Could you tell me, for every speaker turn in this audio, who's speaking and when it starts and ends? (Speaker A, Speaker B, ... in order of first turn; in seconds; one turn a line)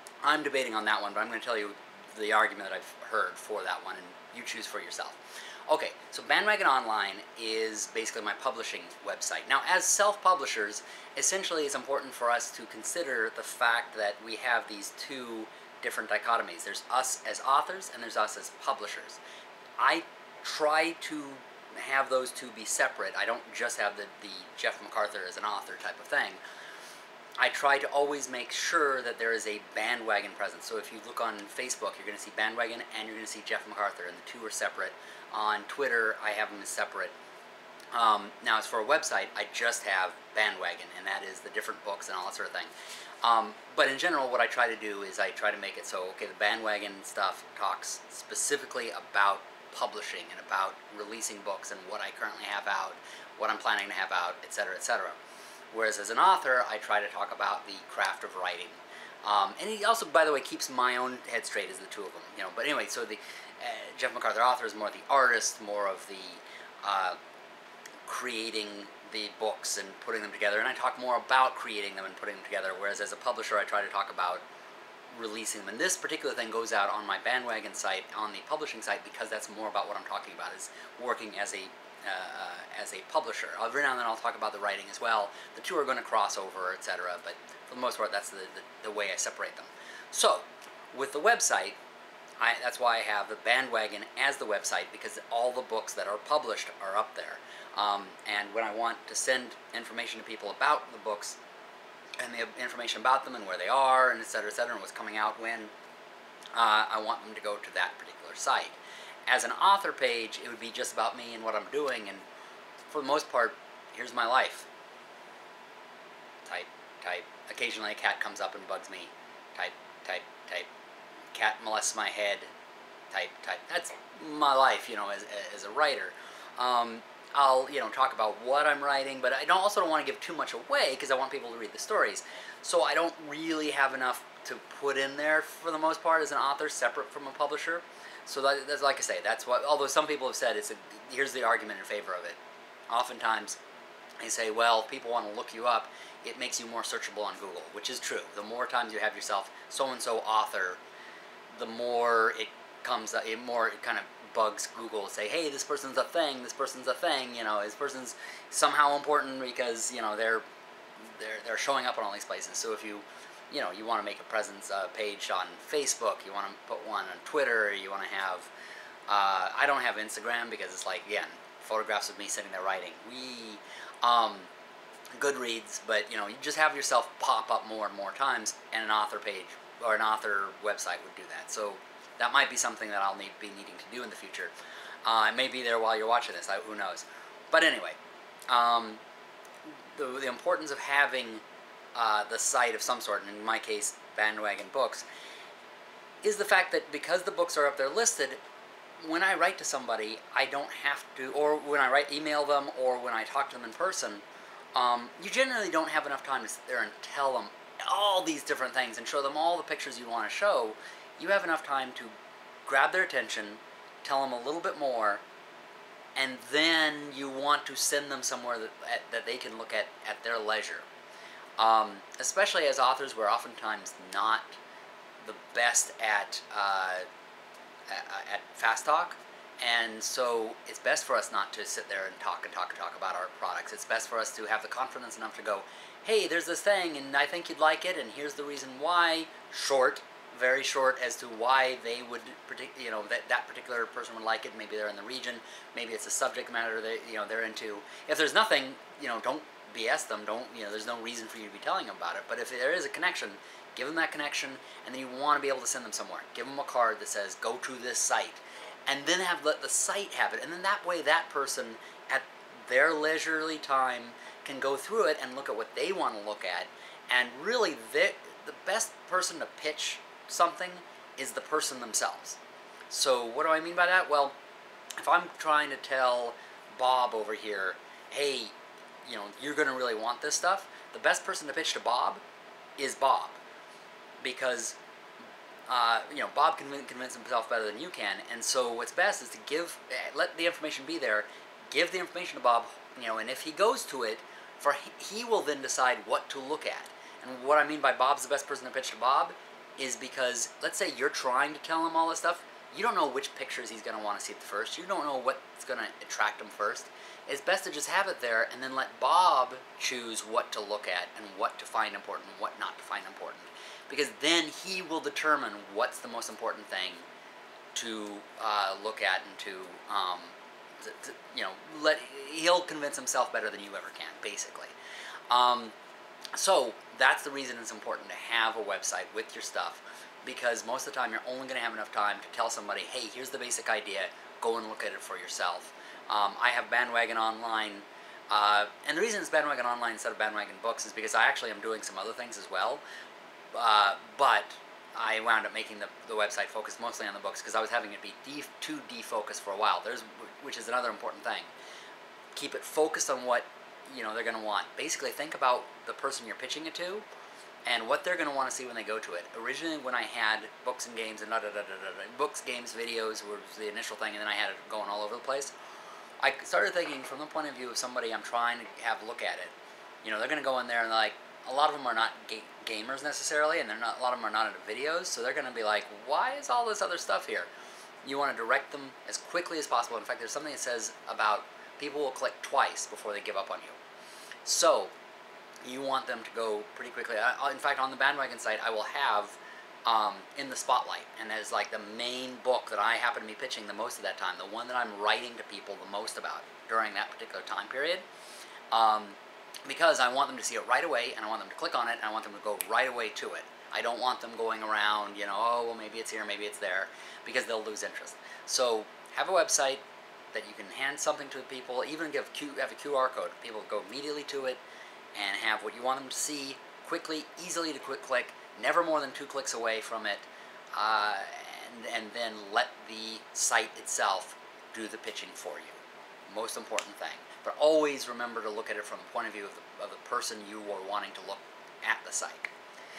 Speaker A: 0.2-19.2
Speaker A: 19.8-26.4
Speaker A: 27.4-37.1
Speaker A: 37.9-42.7
Speaker A: 43.2-55.2
Speaker A: 55.7-67.2
Speaker A: 68.1-74.4
Speaker A: 75.1-91.8
Speaker A: 92.4-101.4
Speaker A: 102.2-105.7
Speaker A: 106.5-112.2
Speaker A: 112.9-114.7
Speaker A: 116.5-120.7
Speaker A: 121.3-122.5
Speaker A: 123.1-142.4
Speaker A: 142.9-143.6
Speaker A: 144.2-150.8
Speaker A: 151.5-160.4
Speaker A: 161.0-168.5
Speaker A: 169.1-174.5
Speaker A: 175.2-184.5
Speaker A: 185.1-188.0
Speaker A: 188.5-189.0
Speaker A: 189.9-191.4
Speaker A: 191.9-195.0
Speaker A: 196.2-198.4
Speaker A: 199.0-204.2
Speaker A: 204.8-212.1
Speaker A: 212.7-215.2
Speaker A: 216.2-220.9
Speaker A: 221.6-224.6
Speaker A: 225.2-227.1
Speaker A: 227.9-272.4
Speaker A: 272.9-274.4
Speaker A: 275.0-278.5
Speaker A: 279.1-282.2
Speaker A: 282.8-283.4
Speaker A: 284.2-284.8
Speaker A: 285.7-317.1
Speaker A: 317.7-324.7
Speaker A: 325.3-325.7
Speaker A: 326.4-342.8
Speaker A: 343.5-351.5
Speaker A: 352.4-357.1
Speaker A: 357.7-365.5
Speaker A: 366.2-377.5
Speaker A: 378.0-383.8
Speaker A: 384.4-384.9
Speaker A: 385.6-398.1
Speaker A: 398.7-409.8
Speaker A: 410.3-414.6
Speaker A: 415.1-432.5